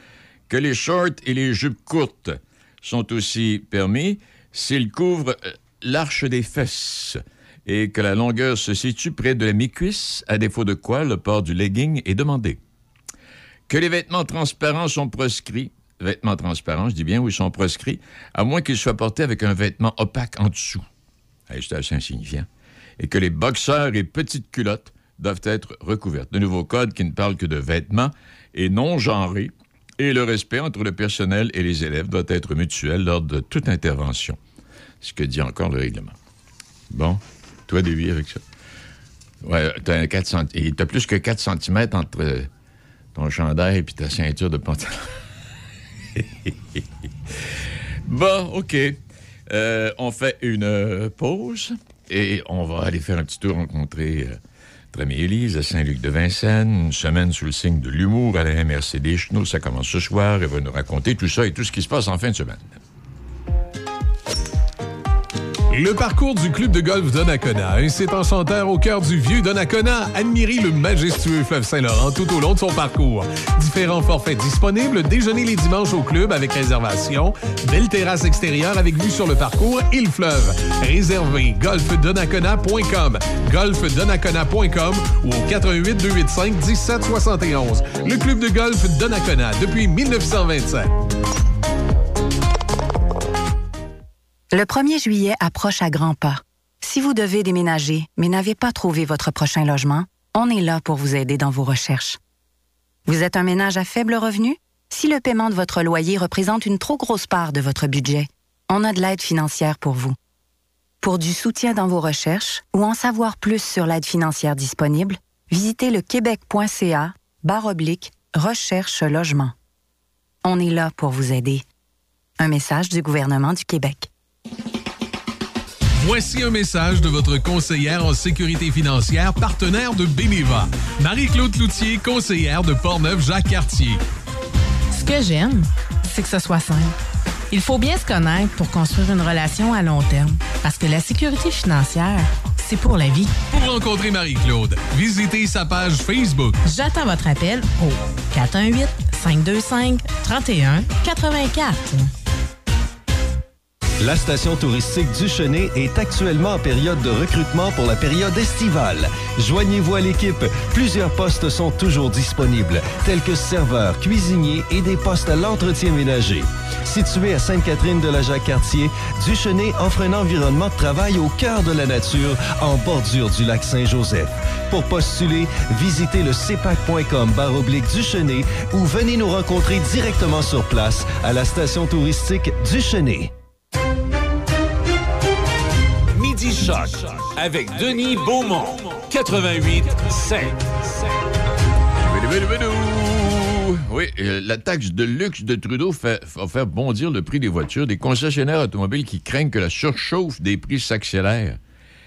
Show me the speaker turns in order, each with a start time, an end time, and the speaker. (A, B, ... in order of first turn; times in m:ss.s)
0:00.5-0:12.6 A
0:13.7-0:20.9 A
0:21.5-0:22.5 A
0:23.0-0:34.4 A
0:35.0-0:36.1 A
0:36.9-0:38.4 A
0:39.4-0:42.5 A
0:43.1-0:45.2 A
0:46.1-0:46.8 A
0:48.0-0:54.4 A
0:54.9-1:02.8 A
1:05.7-1:30.9 B
1:34.5-1:42.2 C
1:43.1-1:50.2 C
1:51.0-1:59.5 C
2:00.4-2:01.6 C
2:02.4-2:04.1 C
2:06.0-2:14.0 B
2:14.9-2:16.9 D
2:17.5-2:23.3 D
2:23.5-2:26.6 B
2:26.6-2:32.1 D
2:34.0-3:03.3 E
3:06.1-3:11.1 F
3:12.0-3:21.6 A